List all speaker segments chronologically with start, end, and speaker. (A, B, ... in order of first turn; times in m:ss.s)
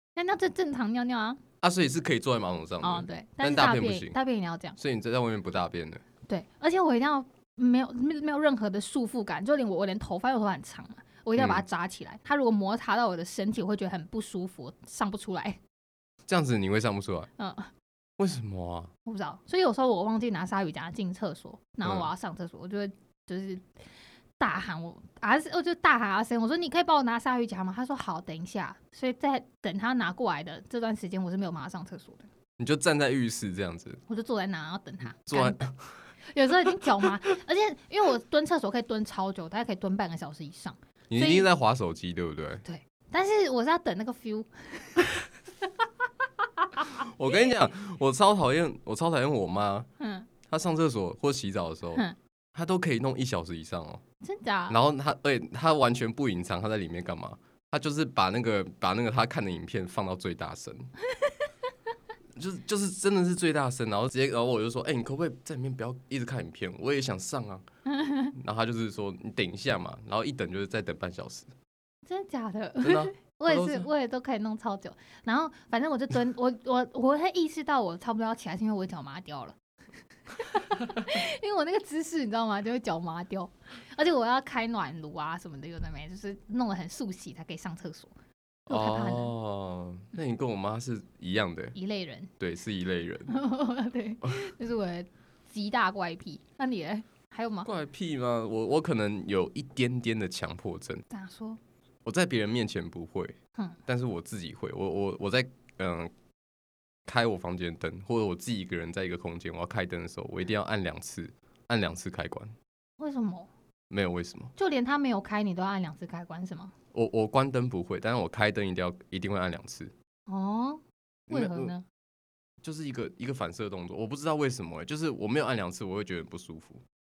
0:00.2-0:01.4 A
0:01.6-0:04.2 B
0:02.8-0:04.8 A
0:04.8-0:06.0 B
0:06.3-0:15.6 A
0:11.4-0:11.6 B
0:16.3-0:17.3 B
0:17.4-0:17.7 A
0:18.2-0:18.9 B
0:19.0-0:23.7 A
0:21.8-0:22.1 B
0:24.4-0:32.3 A
0:32.6-0:34.0 B
0:34.1-0:35.7 A
0:35.2-0:35.9 B
0:36.2-0:41.5 A
0:41.1-0:42.6 B
0:42.6-0:45.1 A
0:46.6-0:46.9 A
0:47.0-0:49.9 B
0:50.0-0:50.3 A
0:50.5-0:52.0 B
0:52.5-0:54.0 B
0:54.2-0:54.8 A
0:54.7-1:00.9 B
1:02.4-1:07.6 B
1:07.9-1:08.3 A
1:08.3-1:11.5 B
1:12.0-1:19.6 A
1:12.8-1:13.9 B
1:20.4-1:28.1 A
1:28.7-1:31.8 B
1:28.7-1:29.3 A
1:31.7-1:32.3 A
1:32.4-1:33.4 B
1:33.3-1:37.7 A
1:37.6-1:41.0 B
1:41.1-1:41.6 A
1:42.0-1:43.4 B
1:43.9-1:46.1 B
1:47.0-1:52.5 B
1:53.0-1:53.5 A
1:53.9-1:54.5 B
1:54.6-1:56.7 A
1:56.9-1:59.9 B
2:00.3-2:01.8 A
2:01.3-2:01.8 B
2:02.6-2:06.8 B